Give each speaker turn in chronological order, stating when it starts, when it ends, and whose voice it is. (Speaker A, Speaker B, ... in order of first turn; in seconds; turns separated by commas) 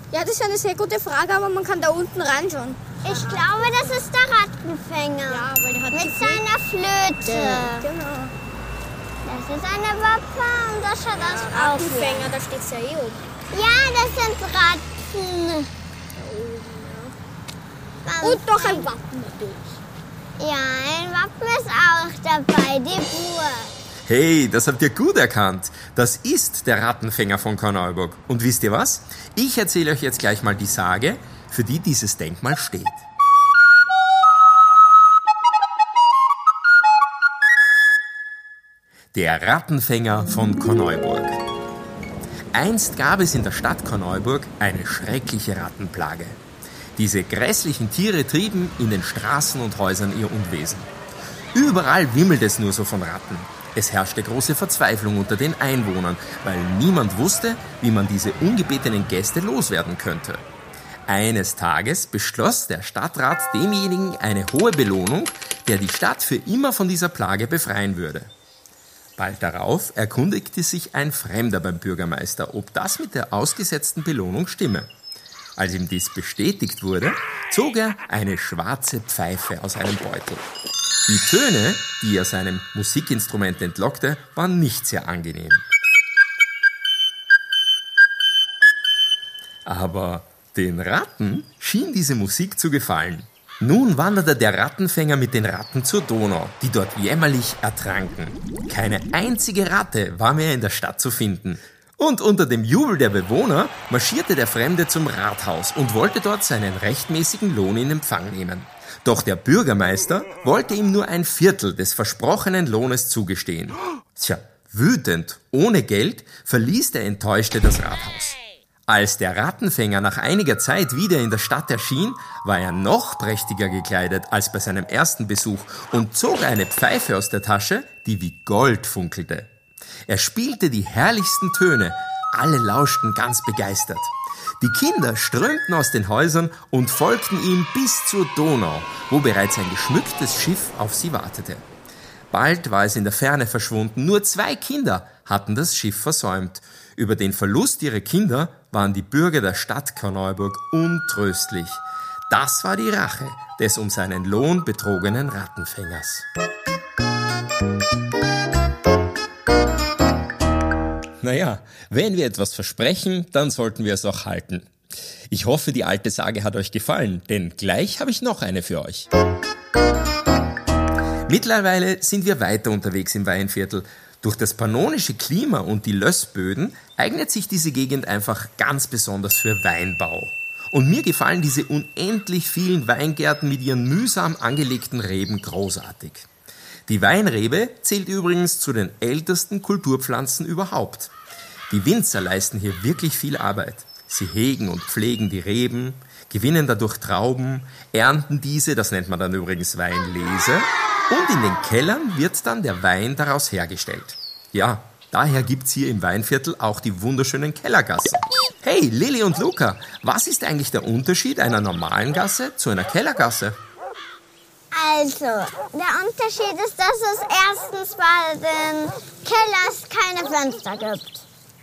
Speaker A: 0.1-4.0, Speaker B: 3.0-7.9, Speaker A: 5.3-6.4, Speaker A: 7.2-8.3, Speaker B: 9.2-12.3, Speaker A: 11.3-13.2, Speaker B: 13.5-15.7, Speaker A: 16.1-17.1, Speaker B: 18.0-18.9, Speaker A: 18.2-19.8, Speaker B: 20.4-23.7, Speaker C: 24.1-33.0, Speaker C: 39.1-41.4, Speaker C: 42.5-46.4, Speaker C: 47.0-50.9, Speaker C: 51.5-60.4, Speaker C: 61.1-68.3, Speaker C: 69.2-74.9, Speaker C: 75.6-80.5, Speaker C: 81.0-85.6, Speaker C: 89.7-129.5, Speaker C: 130.1-141.6, Speaker C: 142.3-156.2, Speaker C: 161.2-164.7, Speaker C: 165.3-169.1, Speaker C: 171.3-186.3, Speaker C: 186.9-191.1, Speaker C: 191.7-213.6, Speaker B: 214.7-221.2